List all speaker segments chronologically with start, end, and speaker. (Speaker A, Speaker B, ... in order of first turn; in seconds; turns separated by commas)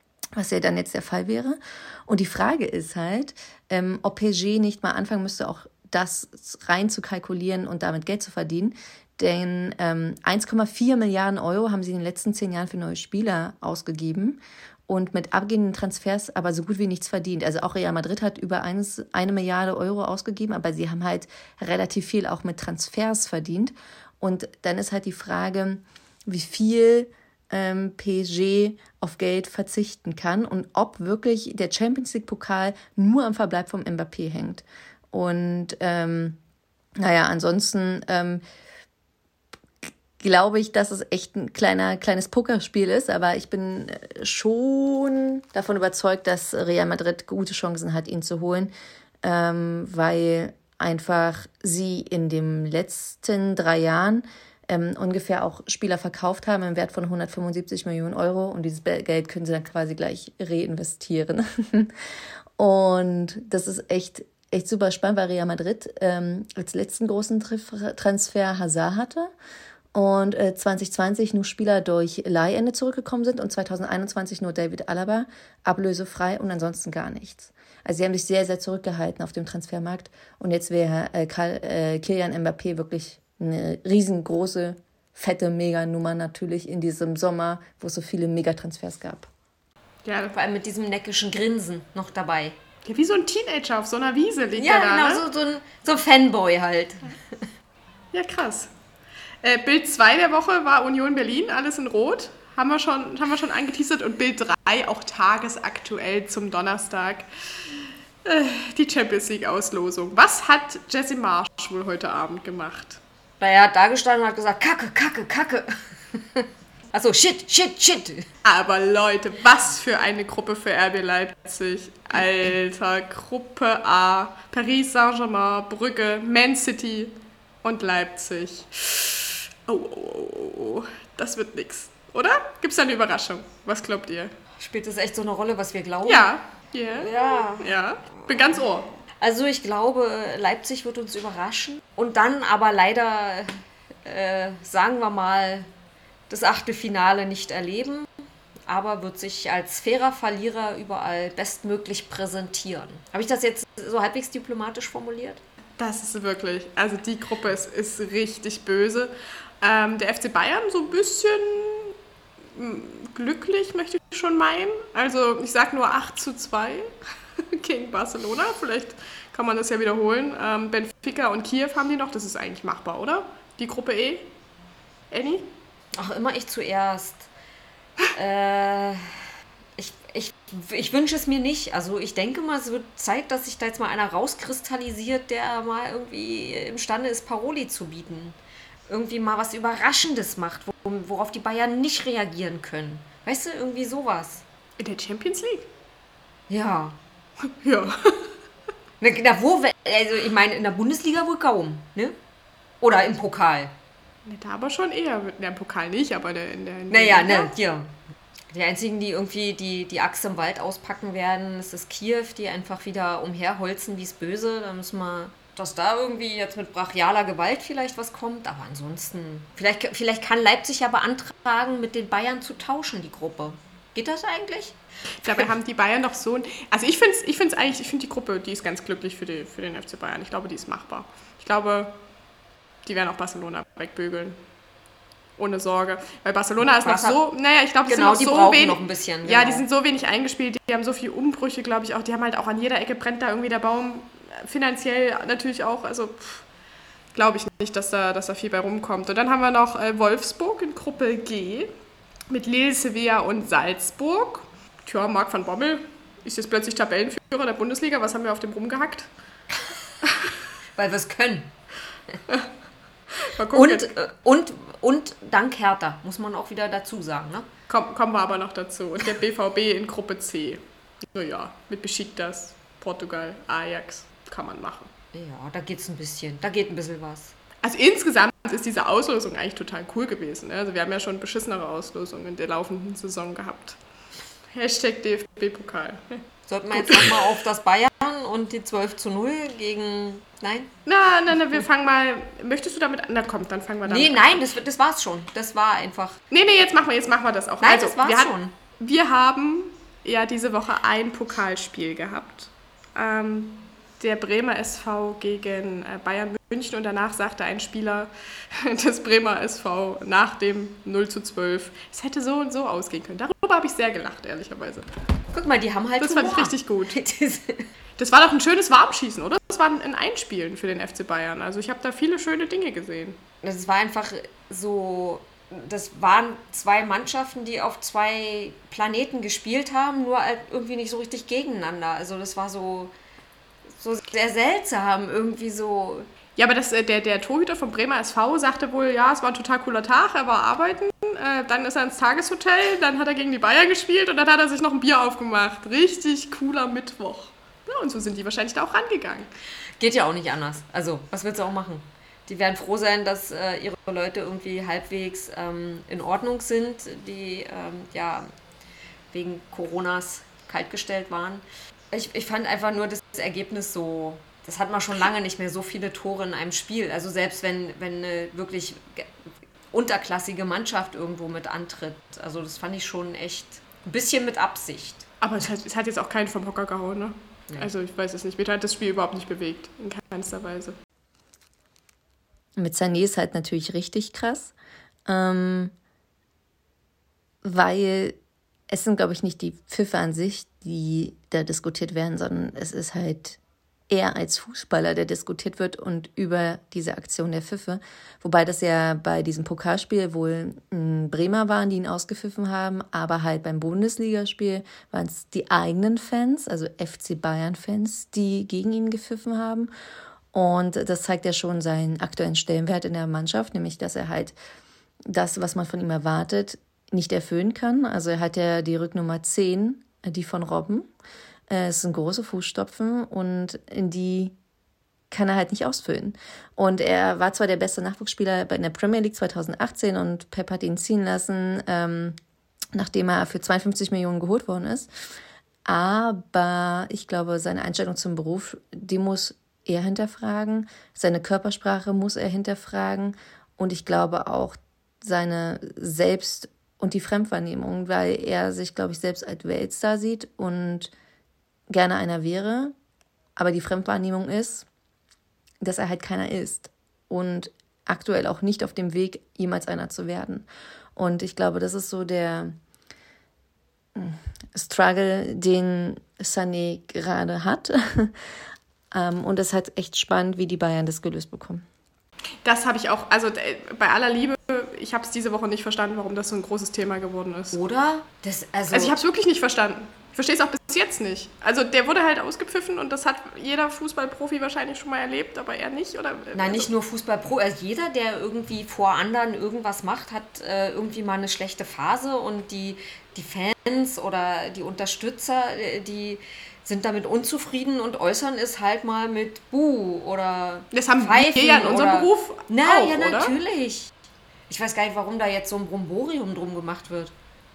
Speaker A: 0.4-36.4, Speaker A: 37.0-38.4, Speaker A: 40.2-48.7, Speaker A: 49.2-62.0, Speaker A: 62.6-69.3, Speaker A: 69.9-89.3, Speaker B: 90.0-90.4, Speaker C: 90.3-92.6, Speaker B: 92.9-95.2, Speaker C: 94.6-97.5, Speaker B: 98.1-98.7, Speaker B: 99.4-107.3, Speaker B: 108.2-113.0, Speaker C: 113.4-118.3, Speaker B: 118.5-134.3, Speaker C: 134.6-136.3, Speaker B: 136.1-138.9, Speaker C: 137.0-137.8, Speaker C: 139.2-145.7, Speaker C: 146.3-148.1, Speaker C: 148.7-155.4, Speaker B: 155.8-161.9, Speaker B: 162.6-166.9, Speaker B: 167.5-174.3, Speaker B: 175.1-175.5, Speaker C: 175.9-177.3, Speaker C: 178.1-179.2, Speaker C: 179.8-188.4, Speaker C: 188.9-194.4, Speaker B: 194.8-195.7, Speaker C: 196.5-197.0, Speaker B: 197.6-198.3, Speaker C: 199.0-202.2, Speaker C: 202.8-203.7, Speaker B: 204.2-207.5, Speaker C: 206.9-207.9, Speaker C: 208.5-224.8, Speaker B: 225.2-232.0, Speaker B: 232.8-234.4, Speaker B: 235.4-246.4, Speaker C: 236.8-237.2, Speaker C: 237.9-239.6, Speaker B: 247.1-251.7, Speaker B: 252.3-259.1, Speaker C: 260.8-261.5, Speaker B: 263.2-263.9, Speaker C: 263.5-267.5, Speaker B: 267.7-270.6, Speaker B: 271.1-274.9, Speaker C: 275.1-277.3, Speaker B: 277.6-283.8, Speaker B: 284.5-286.2, Speaker C: 286.5-290.7, Speaker B: 286.7-287.3, Speaker B: 290.9-294.4, Speaker C: 293.9-296.2, Speaker B: 296.3-314.9, Speaker C: 297.6-298.5, Speaker C: 315.3-317.7, Speaker B: 316.0-317.0, Speaker B: 318.0-323.2, Speaker C: 323.4-332.9, Speaker C: 333.8-336.1, Speaker B: 336.4-349.3, Speaker C: 349.8-358.3, Speaker C: 359.1-369.1, Speaker C: 369.7-375.1, Speaker B: 375.2-380.8, Speaker A: 382.6-384.5, Speaker A: 385.1-385.7, Speaker A: 387.4-388.2, Speaker A: 388.7-409.7, Speaker A: 410.3-414.4, Speaker A: 415.1-420.9, Speaker A: 421.5-424.4, Speaker A: 425.1-432.2, Speaker A: 432.7-434.9, Speaker A: 435.6-450.9, Speaker A: 451.7-452.8, Speaker A: 453.4-454.7, Speaker A: 455.6-462.6, Speaker A: 463.9-468.1, Speaker A: 468.9-471.6, Speaker B: 472.4-477.6, Speaker C: 477.5-479.0, Speaker B: 478.7-486.7, Speaker C: 486.3-503.9, Speaker B: 500.7-503.3, Speaker C: 504.5-507.1